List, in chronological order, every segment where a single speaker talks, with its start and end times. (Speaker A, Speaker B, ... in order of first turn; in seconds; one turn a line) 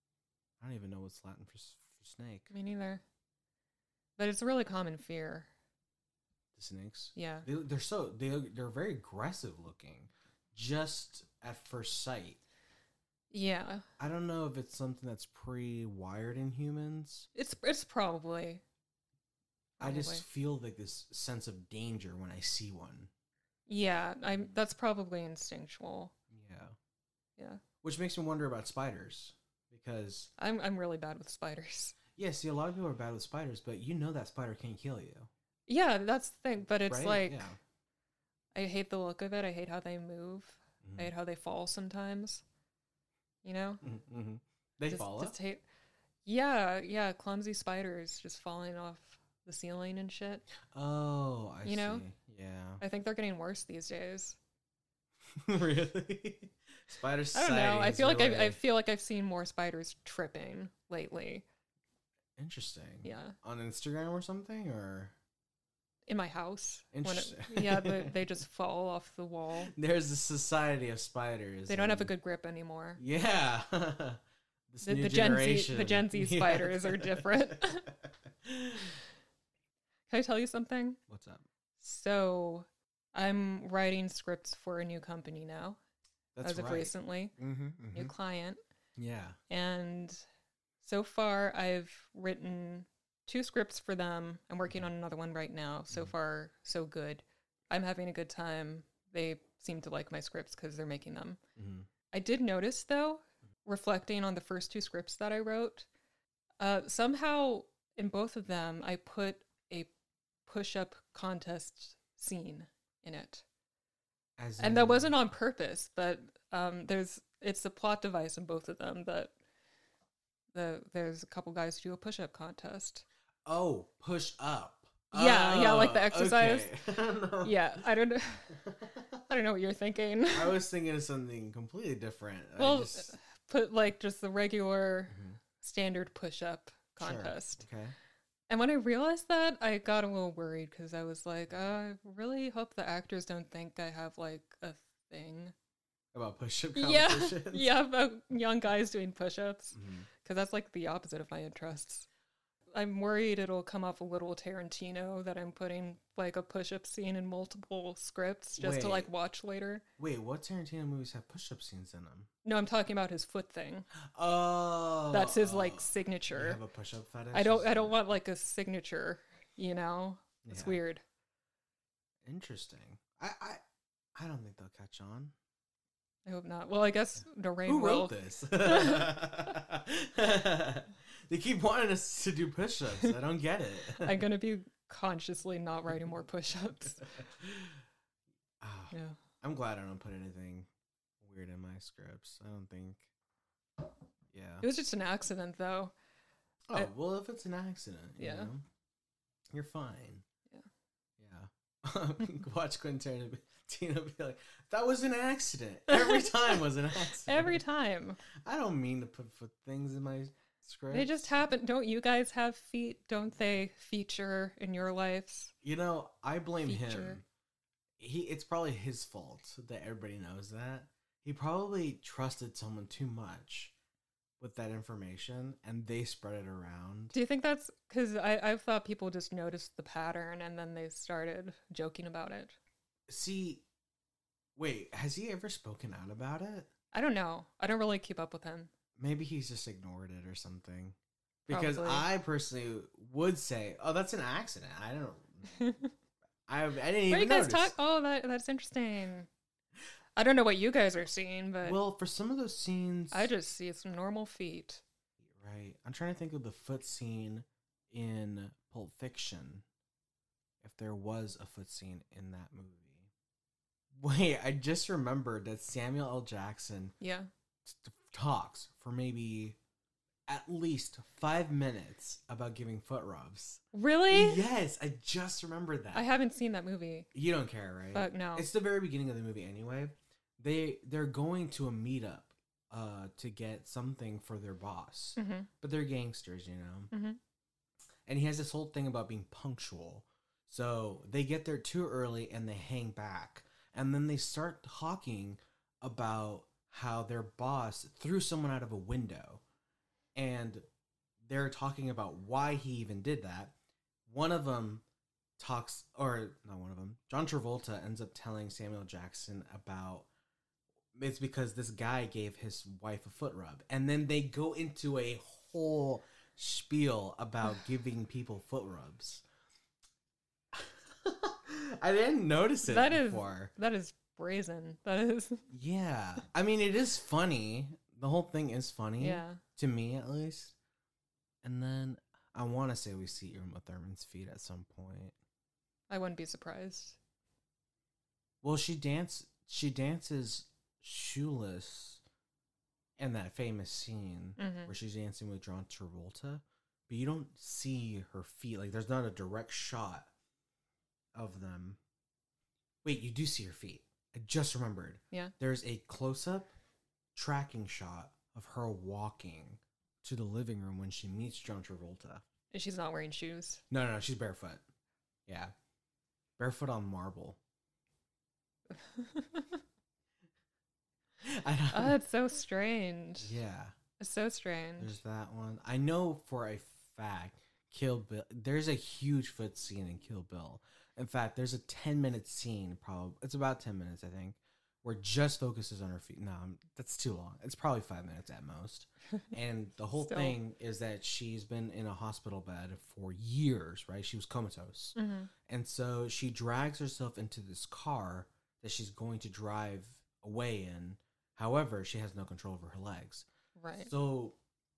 Speaker A: 0.6-2.5
Speaker B: 2.5-3.0
Speaker B: 4.2-5.5
Speaker A: 6.5-12.4
Speaker B: 7.2-7.5
Speaker B: 13.3-13.8
Speaker A: 14.0-17.3
Speaker B: 17.3-18.6
Speaker B: 19.8-20.2
Speaker A: 19.8-23.1
Speaker B: 23.7-26.1
Speaker A: 26.3-26.8
Speaker B: 27.4-27.6
Speaker A: 27.8-30.3
Speaker B: 30.4-32.0
Speaker A: 32.1-35.3
Speaker B: 35.7-37.5
Speaker A: 36.8-37.6
Speaker B: 38.5-42.4
Speaker A: 40.8-41.1
Speaker B: 43.4-43.8
Speaker A: 43.8-45.3
Speaker B: 44.9-45.6
Speaker B: 46.2-50.4
Speaker A: 50.6-52.8
Speaker B: 51.6-52.0
Speaker B: 52.8-54.4
Speaker A: 55.3-58.6
Speaker B: 57.3-61.4
Speaker A: 62.4-65.1
Speaker B: 63.0-63.4
Speaker B: 66.1-69.7
Speaker A: 66.9-68.2
Speaker A: 69.7-72.1
Speaker B: 71.7-73.0
Speaker A: 73.0-74.2
Speaker A: 74.7-77.9
Speaker B: 74.8-77.8
Speaker A: 78.4-79.0
Speaker B: 80.1-81.0
Speaker A: 81.1-81.4
Speaker B: 81.8-85.8
Speaker A: 86.3-88.1
Speaker B: 86.4-87.3
Speaker B: 87.9-88.6
Speaker A: 89.0-89.4
Speaker B: 89.5-90.2
Speaker B: 90.8-101.4
Speaker A: 101.5-101.9
Speaker B: 102.1-105.9
Speaker B: 106.6-109.9
Speaker B: 110.5-113.4
Speaker A: 114.4-115.1
Speaker B: 114.6-119.3
Speaker B: 120.5-123.0
Speaker A: 123.5-127.6
Speaker B: 125.1-126.7
Speaker B: 127.4-128.5
Speaker A: 128.6-129.2
Speaker B: 129.2-130.6
Speaker A: 130.3-133.1
Speaker B: 132.6-137.7
Speaker A: 135.1-135.4
Speaker A: 137.0-137.9
Speaker B: 138.5-145.5
Speaker A: 146.1-147.7
Speaker B: 146.7-152.1
Speaker A: 149.7-150.1
Speaker B: 152.7-159.8
Speaker A: 158.6-159.1
Speaker A: 160.0-162.3
Speaker B: 162.4-163.9
Speaker A: 164.1-168.0
Speaker B: 165.1-166.6
Speaker B: 167.3-171.0
Speaker A: 170.4-170.8
Speaker A: 172.2-173.6
Speaker A: 174.1-175.3
Speaker B: 176.2-179.2
Speaker A: 177.7-184.2
Speaker B: 183.9-187.0
Speaker A: 187.2-187.8
Speaker A: 188.6-190.7
Speaker B: 188.9-189.2
Speaker A: 191.2-193.1
Speaker A: 194.3-194.7
Speaker B: 194.6-195.9
Speaker A: 196.7-198.6
Speaker B: 198.2-198.5
Speaker A: 199.5-200.2
Speaker A: 201.2-207.6
Speaker B: 205.9-208.2
Speaker A: 208.4-211.1
Speaker B: 210.9-215.5
Speaker A: 215.6-217.2
Speaker B: 216.6-217.2
Speaker A: 218.0-223.7
Speaker A: 224.4-227.2
Speaker B: 227.1-232.6
Speaker A: 233.1-233.6
Speaker A: 234.6-236.7
Speaker B: 236.9-238.7
Speaker A: 239.0-240.9
Speaker B: 241.5-242.1
Speaker A: 241.5-245.6
Speaker B: 245.5-245.9
Speaker A: 246.5-247.7
Speaker B: 247.1-249.3
Speaker B: 250.2-251.8
Speaker A: 251.6-253.3
Speaker B: 253.1-254.8
Speaker A: 255.4-259.6
Speaker A: 260.6-263.1
Speaker A: 263.9-266.9
Speaker B: 267.0-267.3
Speaker A: 267.6-269.6
Speaker A: 270.3-276.1
Speaker B: 273.7-274.4
Speaker B: 275.9-277.1
Speaker A: 277.1-286.9
Speaker B: 277.9-278.5
Speaker B: 285.2-285.5
Speaker B: 286.9-287.2
Speaker A: 288.1-299.4
Speaker A: 300.1-300.6
Speaker A: 301.2-303.6
Speaker A: 304.1-304.8
Speaker A: 305.4-310.1
Speaker A: 310.9-319.2
Speaker A: 320.5-323.5
Speaker B: 322.6-325.4
Speaker A: 325.5-330.5
Speaker B: 329.0-329.4
Speaker A: 331.4-335.1
Speaker B: 335.9-337.0
Speaker A: 338.4-342.0
Speaker A: 343.0-350.1
Speaker B: 344.4-344.7
Speaker A: 351.1-351.8
Speaker A: 352.8-356.5
Speaker A: 357.1-362.2
Speaker B: 362.5-363.6
Speaker A: 363.7-364.6
Speaker A: 365.3-365.5
Speaker A: 366.4-367.4
Speaker B: 368.8-369.6
Speaker A: 371.2-371.9
Speaker B: 371.7-373.4
Speaker A: 373.2-373.7
Speaker B: 374.0-374.9
Speaker A: 374.8-395.0
Speaker B: 390.0-390.4
Speaker B: 394.9-395.3
Speaker A: 395.5-404.4
Speaker B: 403.6-403.9